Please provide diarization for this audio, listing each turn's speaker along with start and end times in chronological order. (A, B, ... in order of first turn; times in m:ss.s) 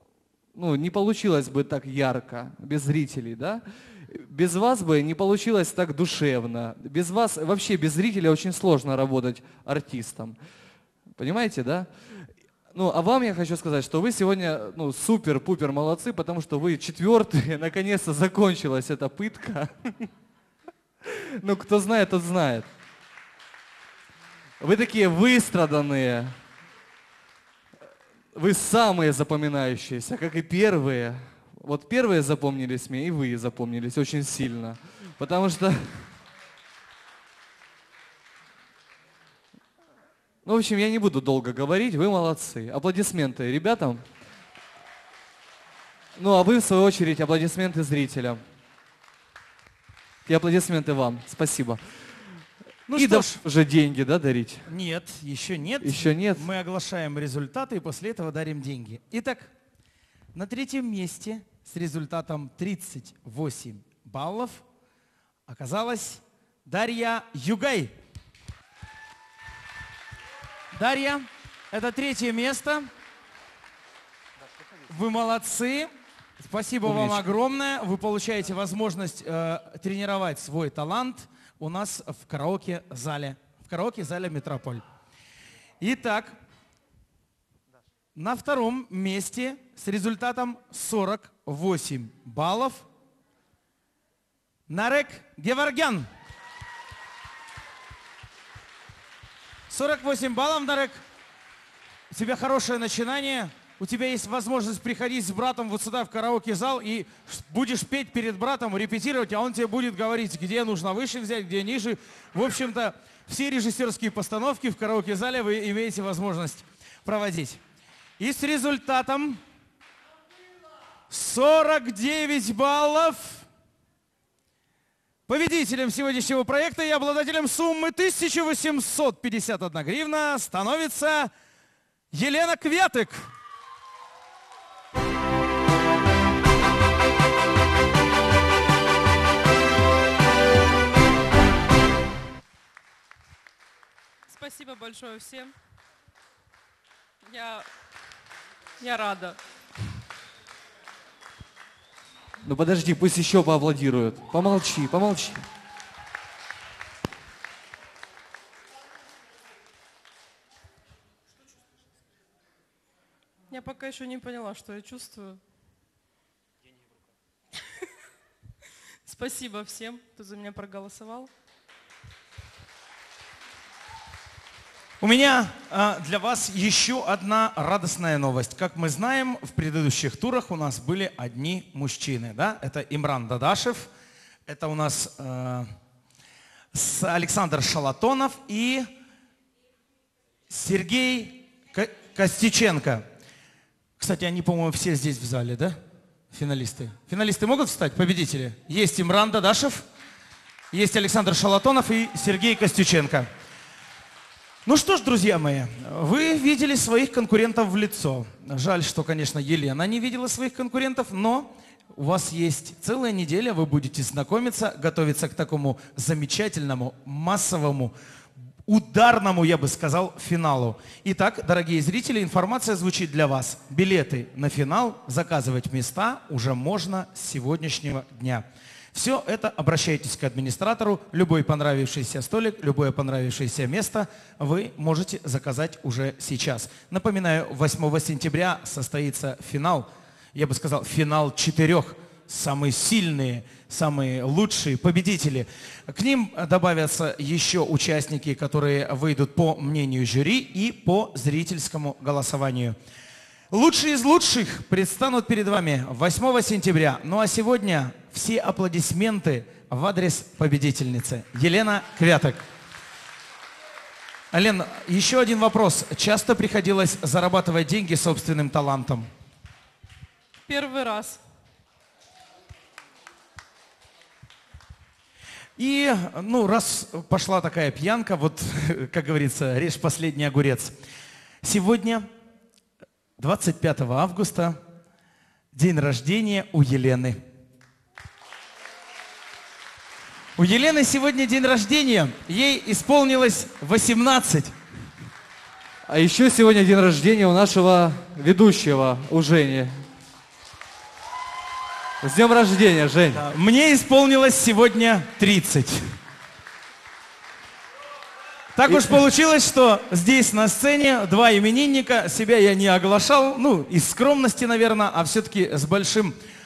0:00.6-0:10.4 A
0:11.2-0:20.1 A
0:21.0-0:22.7 A
0:24.6-0:26.3 A
0:28.4-0:36.1 A
0:40.4-0:44.0 A
0:46.2-0:48.4 A
0:50.3-0:51.8 A
0:52.9-0:53.4 B
0:52.9-0:54.7 A
0:54.7-0:59.5 B
0:55.8-0:56.5 A
1:00.3-1:04.6 B
1:05.5-1:07.9 B
1:10.7-1:12.9 B
1:14.9-1:24.8 B
1:16.8-1:17.3 A
1:25.8-1:26.4 B
1:28.2-1:32.9 B
1:34.7-1:36.1 B
1:39.7-1:41.0 B
1:42.1-1:57.6 B
1:58.2-1:59.4 B
2:01.1-2:03.5 B
2:05.3-2:11.3 B
2:12.1-2:13.3 B
2:24.3-2:25.6 C
2:27.3-2:27.7 C
2:28.8-2:29.4 C
2:32.4-2:35.5 A
2:43.5-2:45.4 C
2:49.1-2:51.3 C
2:55.0-3:03.9 B
3:04.5-3:05.7 B
3:06.7-3:08.9 B
3:10.5-3:13.0 B
3:14.0-3:15.8 B
3:16.3-3:19.9 B
3:20.7-3:23.3 B
3:24.7-3:37.9 B
3:38.7-4:12.8 B
4:13.5-4:22.4 B
4:24.3-4:29.1 B
4:30.5-4:31.2 C
4:35.6-4:40.8 B
4:41.4-4:42.1 B
4:43.2-4:44.6 B
4:45.5-4:47.2 B
4:50.4-4:54.5 B
4:55.9-4:59.7 A
5:02.0-5:03.2 A
5:03.1-5:05.9 B
5:08.6-5:16.2 B
5:08.7-5:09.0 A